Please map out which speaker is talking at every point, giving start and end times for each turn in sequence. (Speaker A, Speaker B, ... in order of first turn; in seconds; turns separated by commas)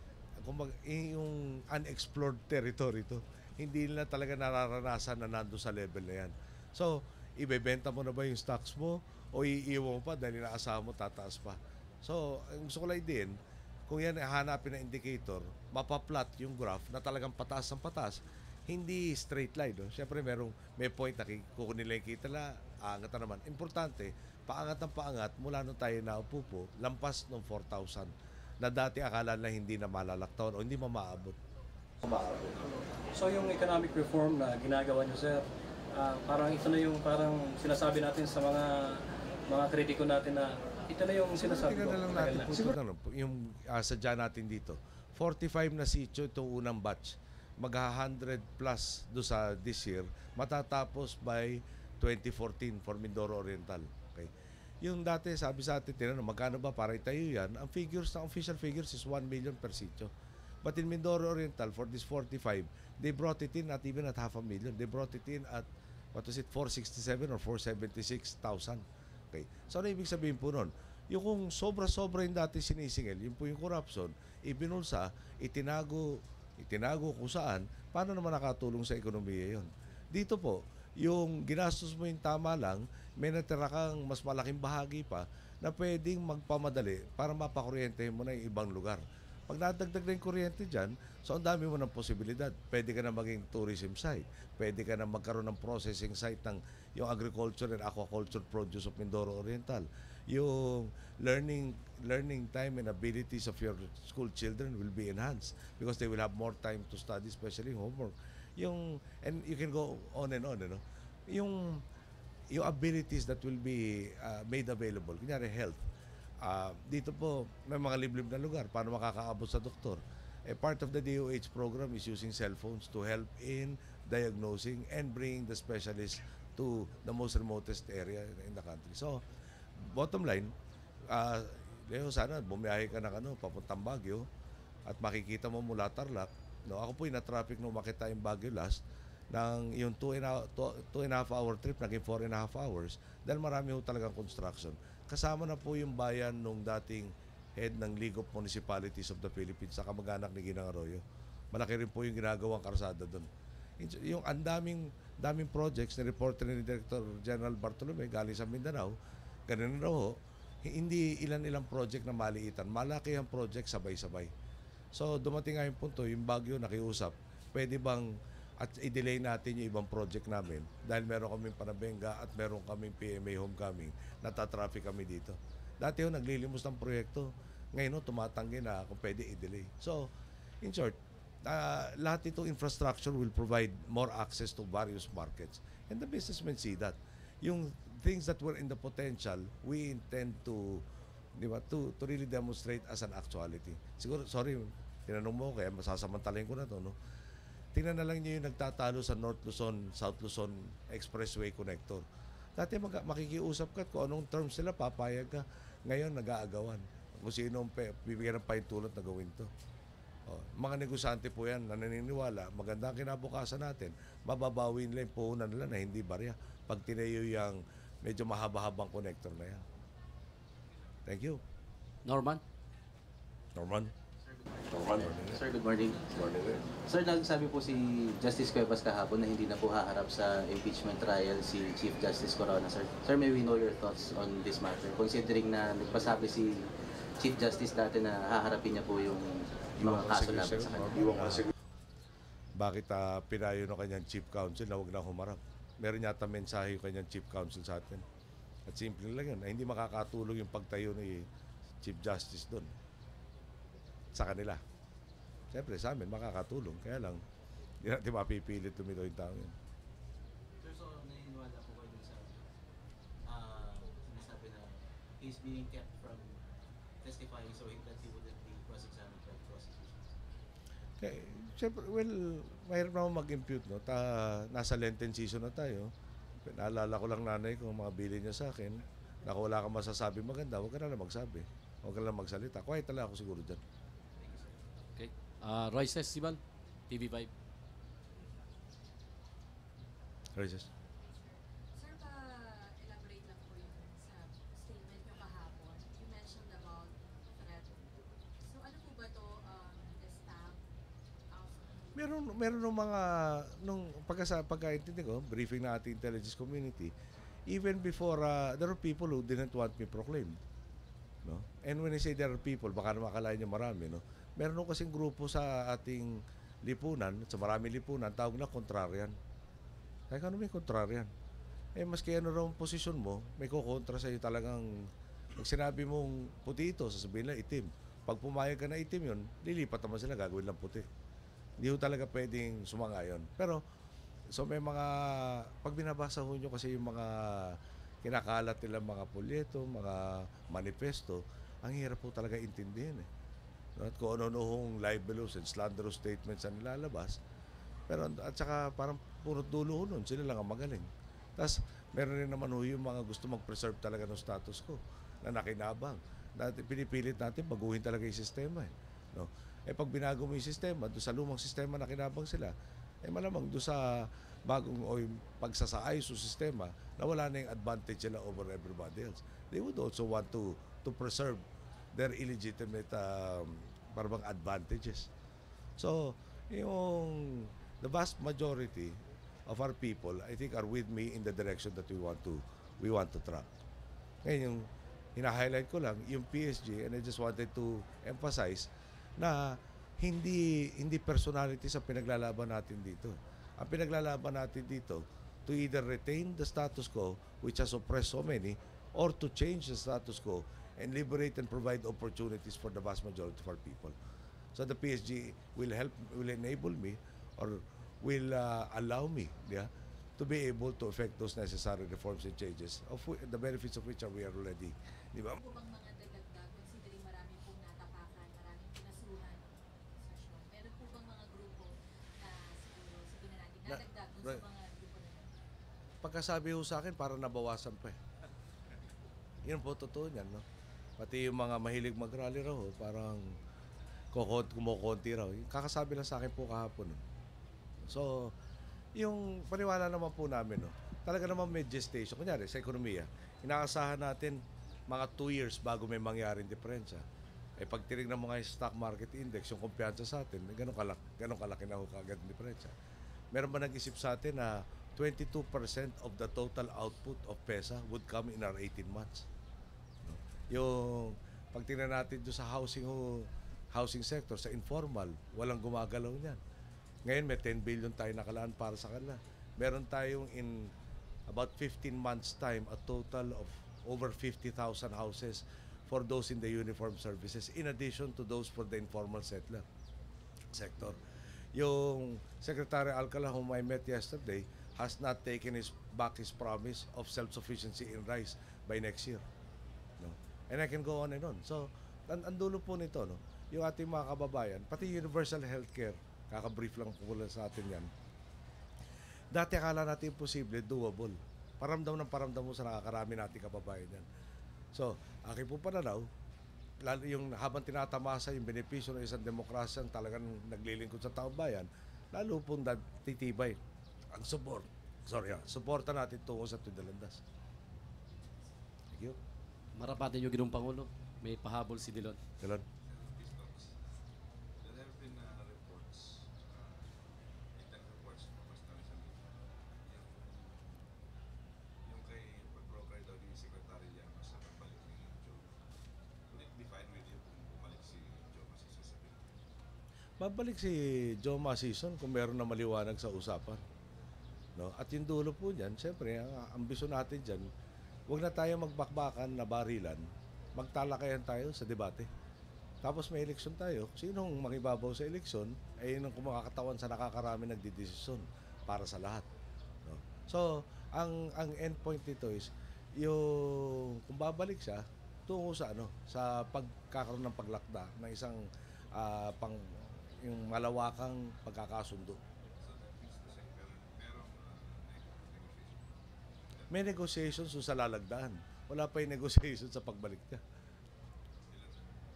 Speaker A: 0.4-13.4, Speaker A: 13.9-31.4, Speaker A: 32.0-32.5, Speaker B: 33.1-42.6, Speaker A: 41.4-60.1, Speaker A: 60.6-111.8, Speaker A: 112.5-115.8, Speaker A: 116.4-129.2, Speaker A: 129.8-130.5, Speaker A: 131.1-134.3, Speaker A: 134.9-153.3, Speaker A: 153.8-158.9, Speaker A: 159.5-164.3, Speaker A: 164.9-180.1, Speaker A: 180.6-190.8, Speaker A: 191.4-196.9, Speaker A: 197.7-209.5, Speaker A: 210.3-219.6, Speaker A: 221.1-221.4, Speaker C: 222.0-222.4, Speaker A: 223.6-223.9, Speaker D: 224.2-241.5, Speaker A: 224.7-225.4, Speaker A: 239.8-241.5, Speaker A: 242.6-248.0, Speaker A: 248.7-251.3, Speaker A: 251.8-252.7, Speaker A: 254.1-254.6, Speaker A: 255.5-257.2, Speaker A: 257.8-259.5, Speaker D: 260.6-262.4, Speaker D: 263.2-270.1, Speaker A: 271.0-275.9, Speaker A: 276.4-283.6, Speaker D: 284.2-284.5, Speaker C: 284.9-287.3, Speaker A: 290.4-290.7, Speaker E: 291.0-300.6, Speaker E: 301.3-302.7, Speaker A: 301.9-306.9, Speaker A: 307.5-310.4, Speaker A: 311.2-319.1, Speaker A: 320.1-321.1, Speaker A: 321.8-330.9, Speaker A: 331.6-333.6, Speaker A: 334.3-343.1, Speaker A: 343.8-347.2, Speaker A: 347.9-362.5, Speaker A: 363.0-371.4, Speaker A: 371.9-375.1, Speaker A: 375.8-383.5, Speaker A: 384.2-403.9, Speaker A: 404.5-415.4, Speaker E: 415.4-425.3, Speaker A: 423.6-424.4, Speaker A: 426.0-428.0, Speaker A: 429.4-430.4, Speaker A: 431.0-433.4, Speaker A: 434.1-437.0, Speaker A: 437.9-438.4, Speaker A: 438.9-447.0, Speaker A: 447.6-452.7, Speaker A: 453.3-459.3, Speaker A: 460.0-466.4, Speaker A: 467.1-470.7, Speaker A: 471.3-479.6, Speaker A: 480.5-481.0, Speaker A: 481.5-489.2, Speaker A: 490.0-497.9, Speaker A: 499.3-504.1, Speaker A: 504.7-506.1, Speaker A: 506.8-513.6, Speaker A: 514.1-517.2, Speaker A: 518.9-519.2, Speaker C: 519.8-522.2, Speaker A: 522.4-522.6, Speaker F: 522.8-523.8, Speaker F: 524.6-526.9, Speaker F: 527.5-529.2, Speaker F: 529.9-530.9, Speaker F: 531.8-535.6, Speaker F: 536.3-539.3, Speaker A: 540.2-543.6, Speaker A: 544.6-547.5, Speaker A: 548.1-550.0, Speaker A: 550.5-552.1, Speaker A: 552.8-559.2, Speaker A: 559.9-572.2, Speaker F: 572.6-576.0, Speaker A: 576.7-580.4, Speaker F: 581.5-581.8